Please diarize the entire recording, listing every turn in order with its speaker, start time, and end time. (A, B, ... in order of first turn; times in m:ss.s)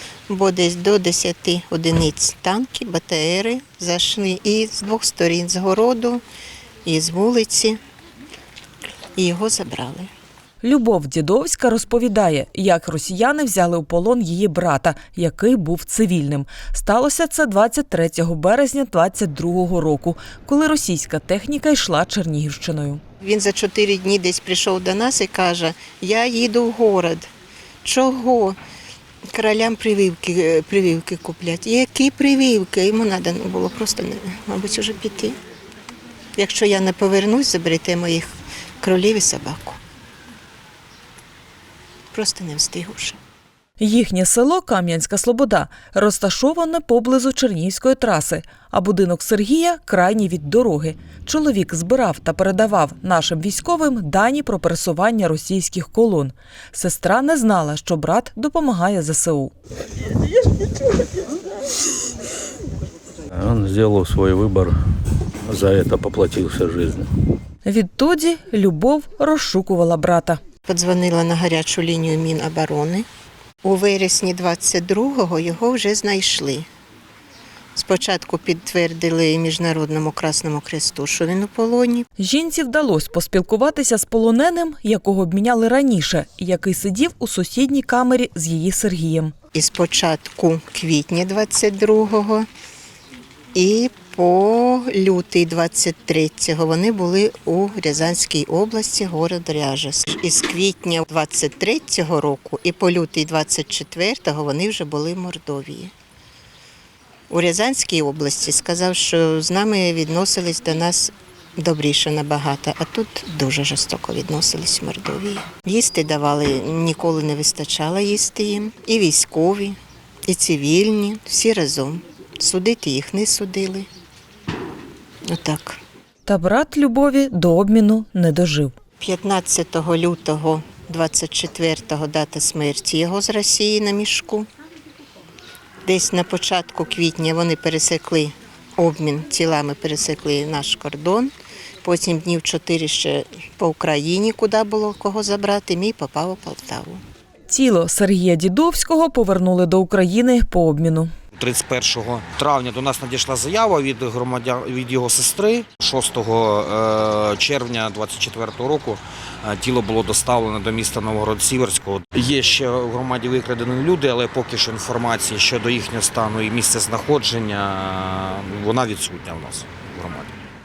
0:00.3-0:06.2 A
0:06.8-0:07.8 A
0:09.2-0:10.1 A
0:10.6-0:23.0 B
0:23.2-0:27.3 A
0:27.8-0:28.6 A
0:29.3-0:35.4 A
0:36.4-0:38.3 A
0:38.8-0:39.8 A
0:42.1-0:43.2 A
0:43.8-0:59.5 B
1:03.3-1:04.8 C
1:05.5-1:07.1 C
1:07.6-1:10.4 B
1:10.6-1:13.1 A
1:13.6-1:16.7 A
1:17.8-1:22.1 A
1:22.2-1:29.3 B
1:29.5-1:32.5 A
1:33.5-1:45.9 A
1:47.3-2:03.9 A
2:05.3-2:05.8 A
2:06.3-2:08.7 B
2:09.0-2:14.5 A
2:15.8-2:21.3 A
2:21.8-2:27.0 A
2:27.5-2:31.1 B
2:31.4-2:50.4 D